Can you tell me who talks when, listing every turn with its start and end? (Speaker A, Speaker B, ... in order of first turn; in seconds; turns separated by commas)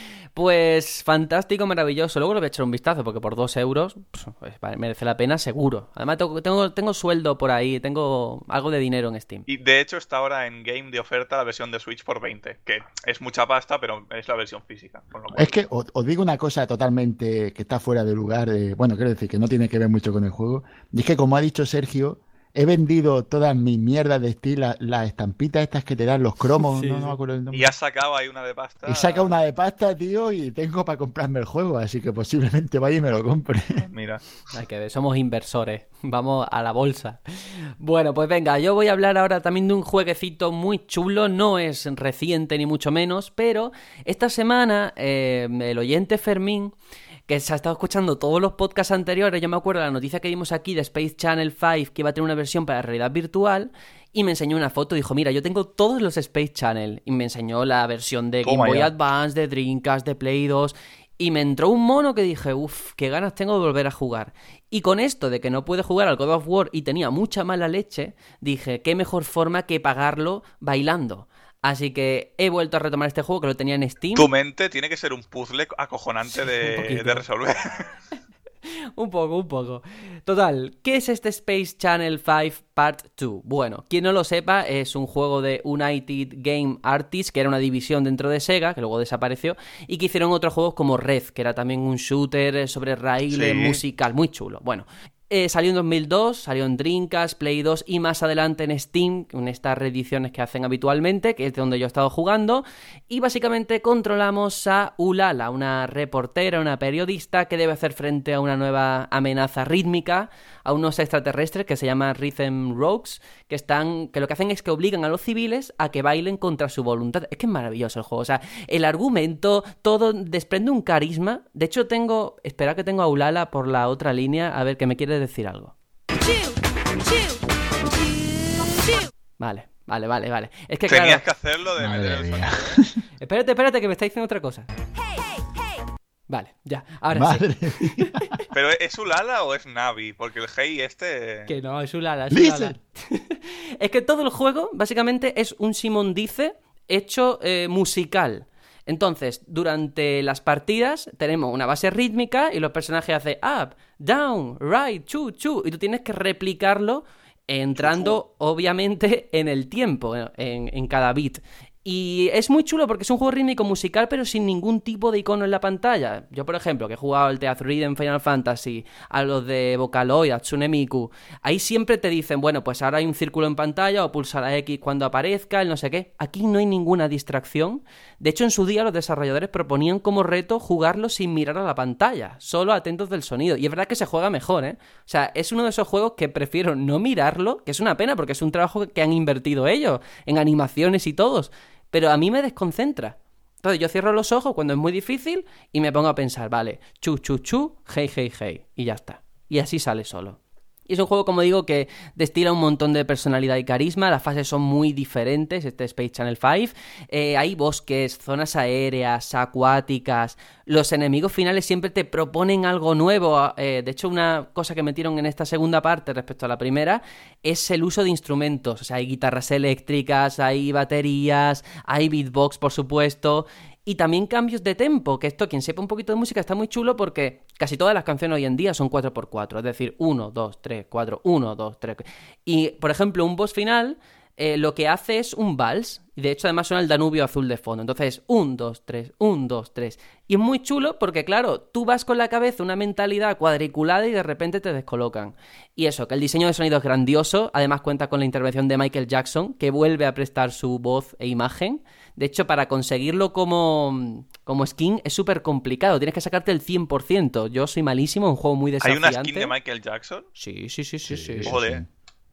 Speaker A: 0.3-9.5, Speaker B: 9.5-15.6, Speaker C: 15.3-27.7, Speaker A: 26.6-27.1, Speaker B: 27.5-29.3, Speaker C: 28.8-33.8, Speaker B: 33.8-34.2, Speaker A: 34.5-37.2, Speaker A: 37.8-46.7, Speaker A: 47.3-74.3, Speaker B: 58.4-58.9, Speaker B: 74.1-77.9, Speaker A: 76.3-77.2, Speaker A: 79.0-125.7, Speaker B: 93.3-93.8, Speaker A: 129.4-131.2, Speaker B: 130.9-132.8, Speaker C: 131.8-133.0, Speaker A: 133.2-134.7, Speaker A: 136.3-138.1, Speaker C: 137.1-138.4, Speaker B: 138.5-141.5, Speaker A: 141.5-259.5, Speaker C: 142.3-142.8, Speaker B: 157.8-158.1, Speaker B: 258.8-260.3, Speaker A: 260.4-261.5, Speaker C: 261.1-261.9, Speaker B: 261.4-261.8